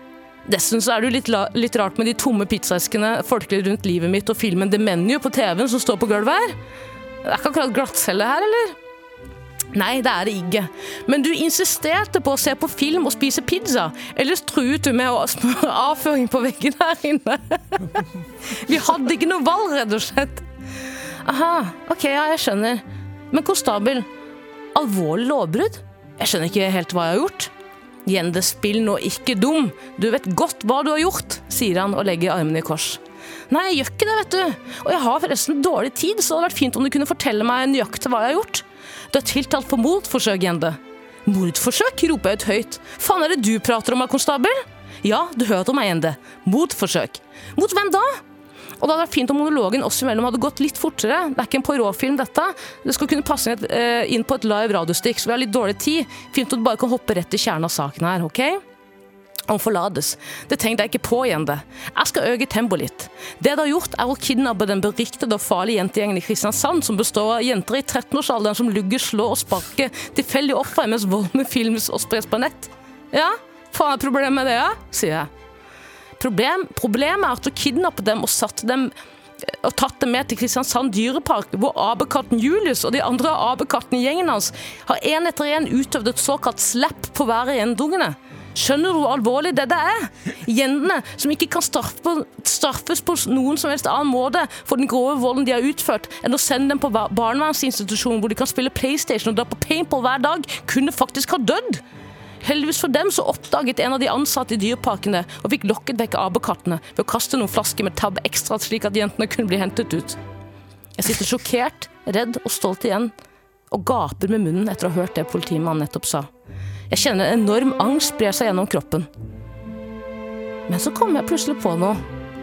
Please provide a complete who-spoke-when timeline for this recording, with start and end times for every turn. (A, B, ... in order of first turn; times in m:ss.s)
0:00.5-0:06.6 A
0:07.2-0:08.8 A
0:09.7-0:20.4 A
0:21.2-0:24.1 A
0:24.7-0:27.5 A
0:28.1-0:48.2 A
0:48.8-0:58.6 A
0:59.5-1:15.3 A
1:16.2-1:18.9 A
1:19.4-1:41.8 A
1:42.4-1:50.2 A
1:51.0-1:53.1 A
1:53.7-1:56.3 A
1:56.9-1:59.1 A
2:00.7-2:02.0 A